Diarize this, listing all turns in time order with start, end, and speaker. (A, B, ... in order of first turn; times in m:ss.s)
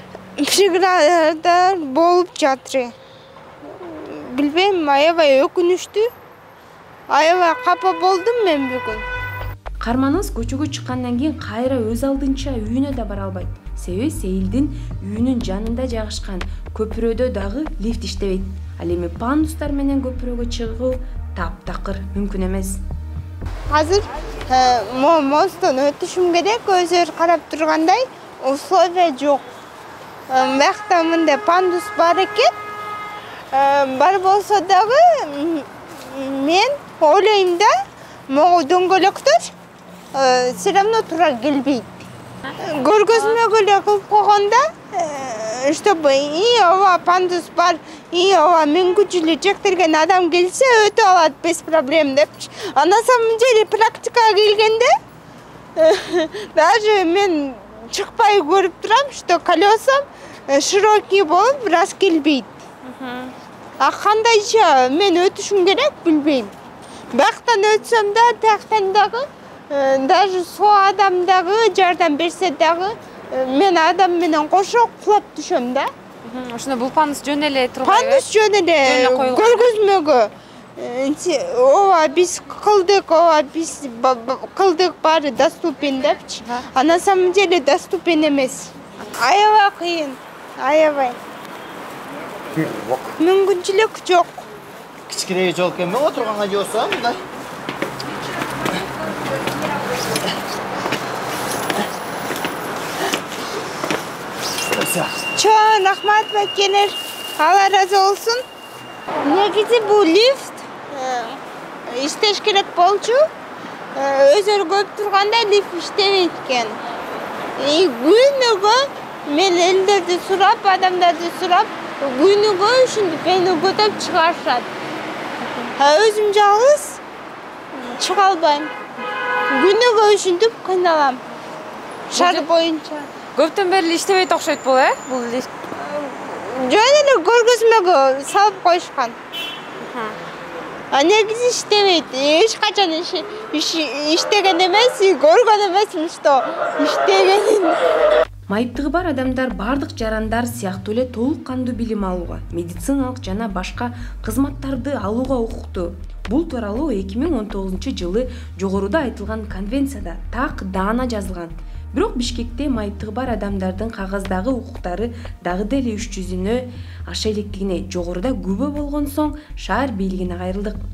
0:00.4-0:02.9 A
0:03.7-0:06.1 A
0:07.1-0:09.0 A
0:09.8-0:22.8 B
0:23.7-0:29.4 A
0:30.3-0:32.5 A
0:33.5-0:37.7 A
0:38.3-0:39.5 A
0:40.1-0:42.0 A
0:42.6-0:54.9 A
0:55.8-1:02.6 A
1:02.8-1:03.3 C
1:03.8-1:06.5 A
1:07.1-1:15.9 A
1:16.2-1:18.2 C
1:17.8-1:31.2 A
1:18.8-1:19.7 C
1:33.2-1:34.4 A
1:35.1-1:37.2 D
1:44.8-1:45.1 D
1:45.4-1:48.4 A
1:49.2-1:53.2 A
1:54.0-1:56.8 A
1:57.6-2:04.7 A
2:05.8-2:07.0 A
2:07.7-2:08.7 A
2:09.5-2:11.2 A
2:12.1-2:13.1 A
2:12.1-2:12.5 C
2:13.4-2:15.5 C
2:15.7-2:19.2 A
2:19.8-2:20.2 C
2:20.9-2:27.8 A
2:28.5-2:50.8 B